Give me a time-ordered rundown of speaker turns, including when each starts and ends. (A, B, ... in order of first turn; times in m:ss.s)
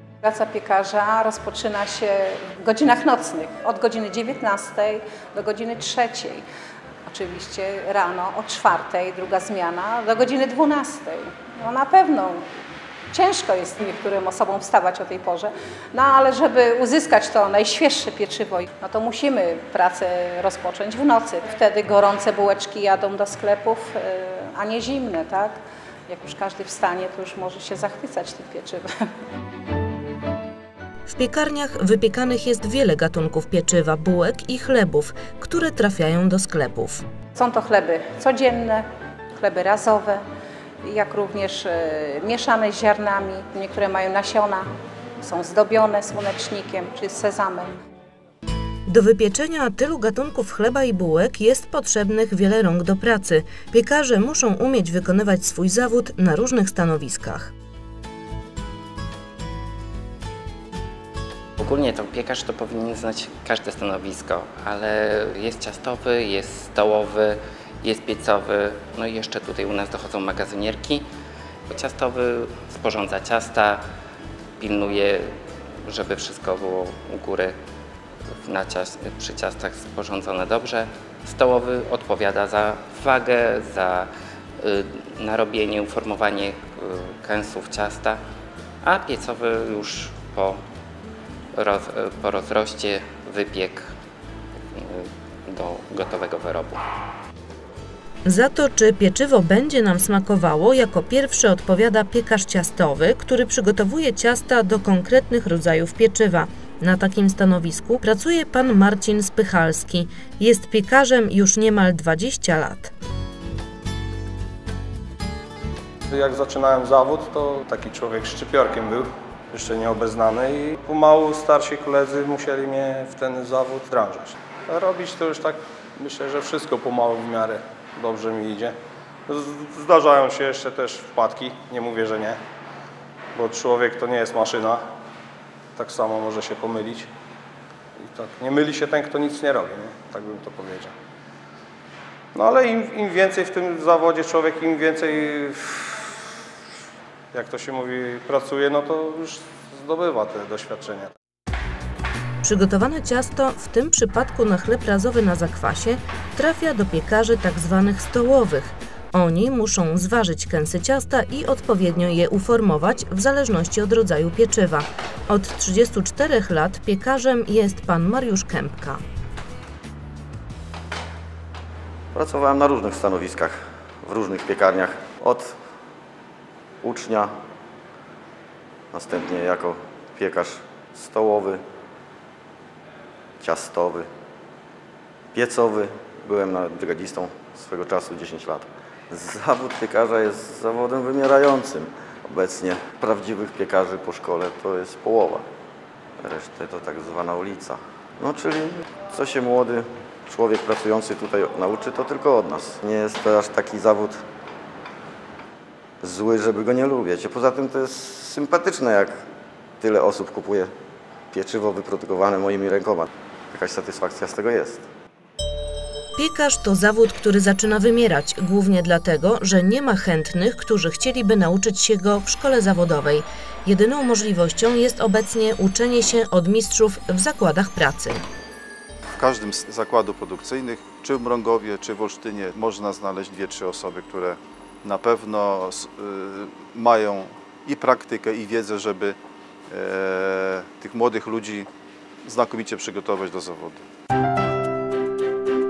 0:00.2-0:06.4 A
0:07.0-0:12.4 A
0:13.1-0:28.9 A
0:31.1-0:37.0 B
0:37.3-0:40.2 A
0:40.8-0:47.7 A
0:48.9-0:57.5 B
1:01.6-1:11.1 C
1:11.7-1:13.8 C
1:14.6-1:15.4 C
1:15.9-1:17.6 C
1:18.4-1:24.1 C
1:24.6-1:28.2 C
1:28.8-1:30.6 C
1:31.5-1:33.9 C
1:34.7-1:36.8 C
1:38.2-1:52.9 B
1:56.1-2:08.7 D
2:09.3-2:12.4 D
2:13.3-2:14.8 D
2:15.8-2:17.1 D
2:18.0-2:20.9 D
2:22.3-2:26.1 D
2:27.3-2:31.1 D
2:32.4-2:49.0 B
2:52.1-2:55.6 E
2:56.8-2:57.3 E
2:58.9-3:01.6 E
3:03.4-3:04.1 E
3:05.3-3:15.4 E
3:16.2-3:24.2 E
3:26.0-3:29.2 E
3:29.8-3:30.7 E
3:31.3-3:34.9 E
3:36.2-3:48.2 B
3:49.2-3:59.2 F
3:59.7-4:01.7 F
4:02.2-4:03.8 F